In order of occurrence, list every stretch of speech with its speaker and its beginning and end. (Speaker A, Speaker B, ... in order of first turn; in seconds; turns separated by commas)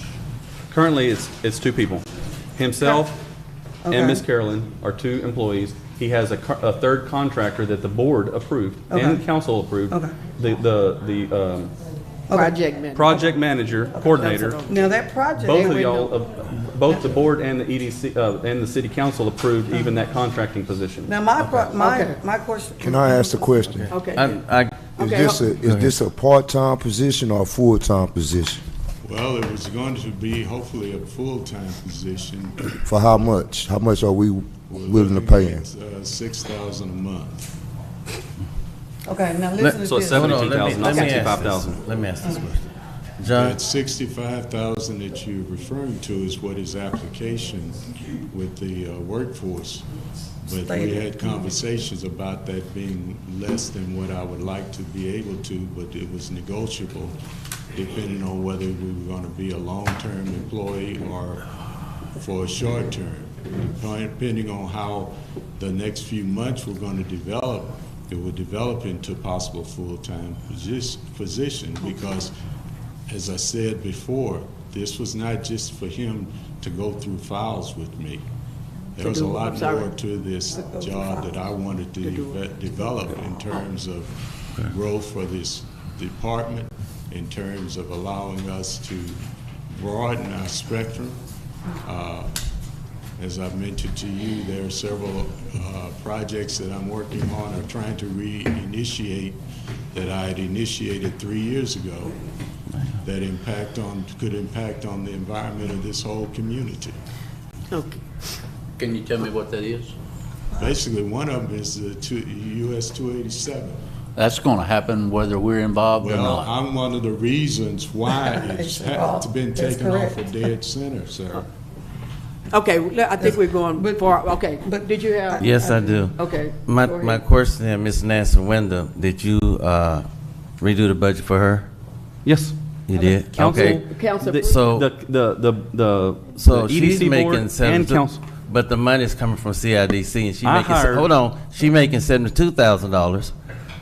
Speaker A: 0.7-2.0, Speaker A: 2.5-3.2, Speaker B: 3.8-4.2, Speaker A: 3.9-11.7, Speaker B: 8.9-9.2, Speaker B: 12.3-12.5, Speaker C: 12.3-13.2, Speaker A: 12.9-14.6, Speaker C: 14.0-16.1, Speaker B: 14.7-16.0, Speaker A: 15.4-21.1, Speaker B: 21.1-23.5, Speaker C: 21.8-22.2, Speaker D: 22.8-24.0, Speaker E: 23.7-24.8, Speaker C: 23.9-24.4, Speaker C: 24.9-25.5, Speaker D: 25.0-28.6, Speaker F: 29.0-32.8, Speaker D: 32.8-35.7, Speaker F: 34.7-37.5, Speaker B: 39.0-41.2, Speaker E: 39.6-42.6, Speaker A: 39.8-41.8, Speaker E: 43.2-43.6, Speaker F: 43.3-49.9, Speaker F: 50.4-57.1, Speaker B: 50.5-51.4, Speaker F: 57.7-61.4, Speaker F: 62.1-72.3, Speaker F: 73.1-78.2, Speaker F: 79.0-89.2, Speaker C: 79.0-79.9, Speaker B: 80.5-81.4, Speaker C: 82.0-82.4, Speaker F: 89.7-91.2, Speaker F: 91.8-92.3, Speaker F: 93.2-99.4, Speaker F: 99.9-102.2, Speaker F: 103.0-107.0, Speaker C: 107.7-108.0, Speaker G: 108.8-109.9, Speaker F: 110.6-113.8, Speaker G: 114.1-116.5, Speaker F: 116.0-121.5, Speaker B: 118.3-120.3, Speaker C: 122.5-125.5, Speaker B: 123.2-126.1, Speaker E: 125.4-130.1, Speaker C: 126.0-127.2, Speaker E: 130.6-131.7, Speaker A: 132.2-132.6, Speaker E: 132.9-133.8, Speaker C: 132.9-134.7, Speaker A: 133.3-138.2, Speaker E: 134.4-134.9, Speaker E: 136.3-143.3, Speaker A: 140.4-141.1